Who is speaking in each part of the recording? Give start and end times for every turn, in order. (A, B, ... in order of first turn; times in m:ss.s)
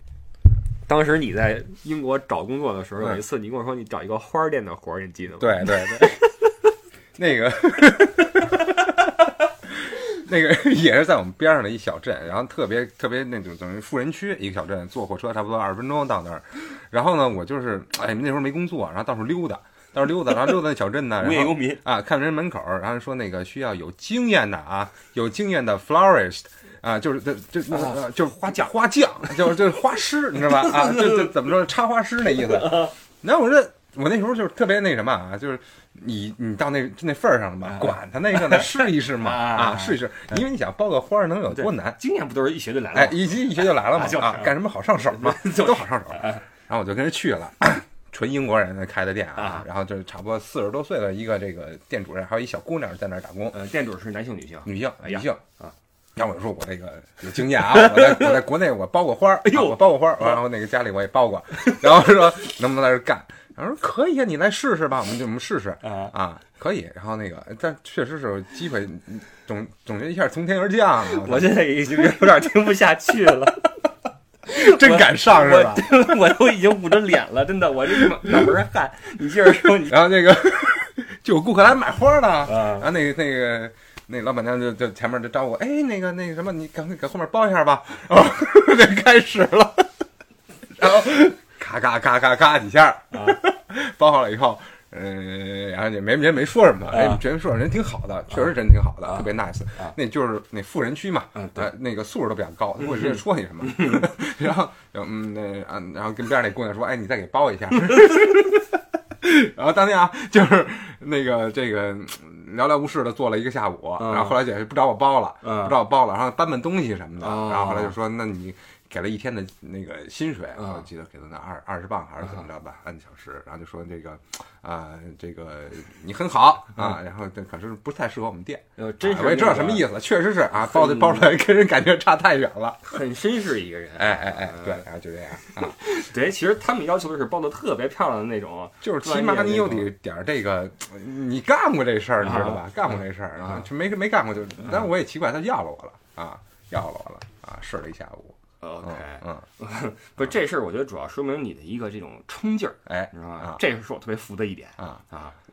0:00.9-0:06.5 A
0:05.4-0:06.2 B
0:07.1-0:08.9 B
0:09.7-0:42.0 B
0:21.2-0:21.8 A
0:27.7-0:29.5 A
0:30.5-0:31.3 A
0:32.3-0:32.9 A
0:37.7-0:40.0 A
0:41.5-0:44.5 A
0:42.9-0:53.6 B
0:45.2-0:46.4 A
0:49.4-0:49.6 A
0:53.5-0:55.7 A
0:54.6-0:55.4 B
0:56.2-1:11.5 B
0:57.7-0:58.3 A
0:59.4-1:00.4 A
1:05.8-1:06.1 A
1:11.0-1:13.7 A
1:14.5-1:15.9 B
1:14.5-1:20.1 A
1:19.8-1:29.9 B
1:22.5-1:22.9 A
1:30.8-2:12.9 B
1:36.9-1:37.2 A
1:41.4-1:41.6 A
1:54.0-1:54.3 A
1:55.4-1:55.7 A
1:57.2-1:57.9 A
2:00.6-2:00.8 A
2:08.8-2:09.9 A
2:10.6-2:11.3 A
2:12.8-2:14.8 A
2:14.0-2:15.8 B
2:15.4-2:19.9 A
2:18.8-2:29.4 B
2:22.2-2:22.6 A
2:28.6-2:35.3 A
2:32.9-2:33.6 B